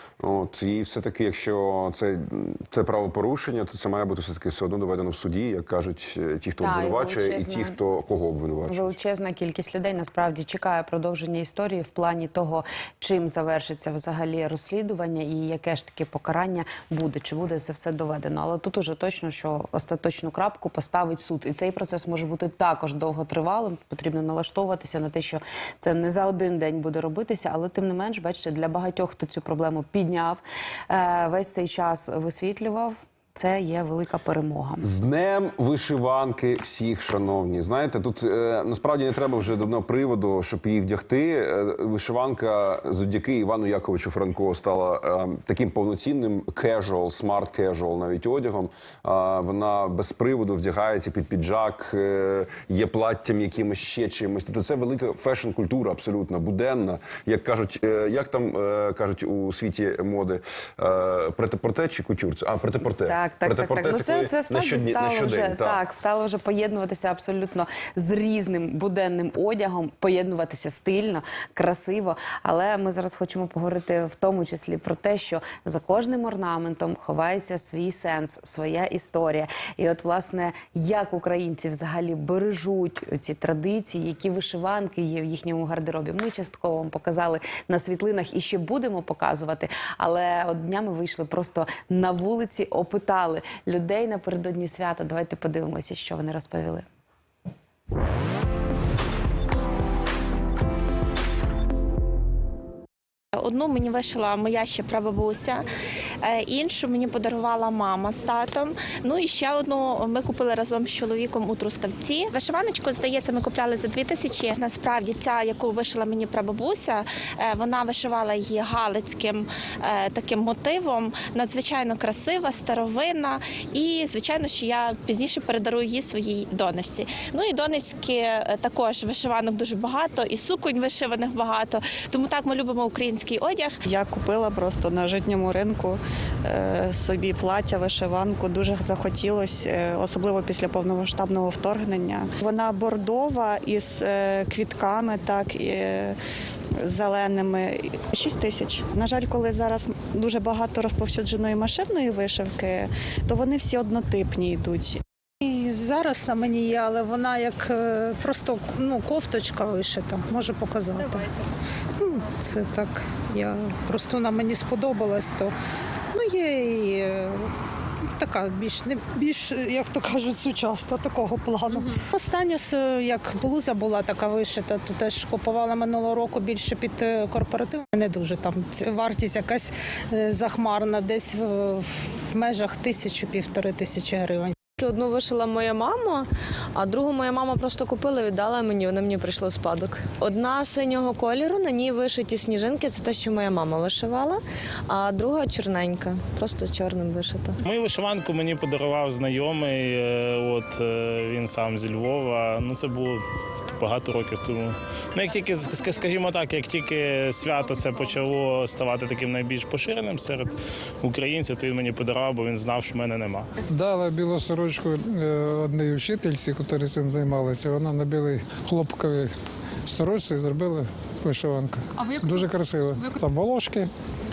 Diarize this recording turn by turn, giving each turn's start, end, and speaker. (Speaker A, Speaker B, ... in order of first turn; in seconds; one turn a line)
Speaker A: 0.2-8.9
Speaker B: 6.6-7.8
Speaker B: 8.7-34.9
Speaker A: 34.8-65.8
Speaker B: 63.0-96.8
Speaker C: 103.4-105.6
Speaker C: 106.2-133.7
Speaker D: 133.9-146.2
Speaker D: 146.8-155.0
Speaker E: 155.4-161.2
Speaker E: 162.0-165.5
Speaker E: 166.2-167.3
Speaker E: 168.2-181.8
Speaker E: 182.3-184.6
Speaker F: 184.8-197.6
Speaker G: 197.7-203.2
Speaker G: 203.8-213.5
Speaker H: 213.7-219.3
Speaker H: 219.9-223.9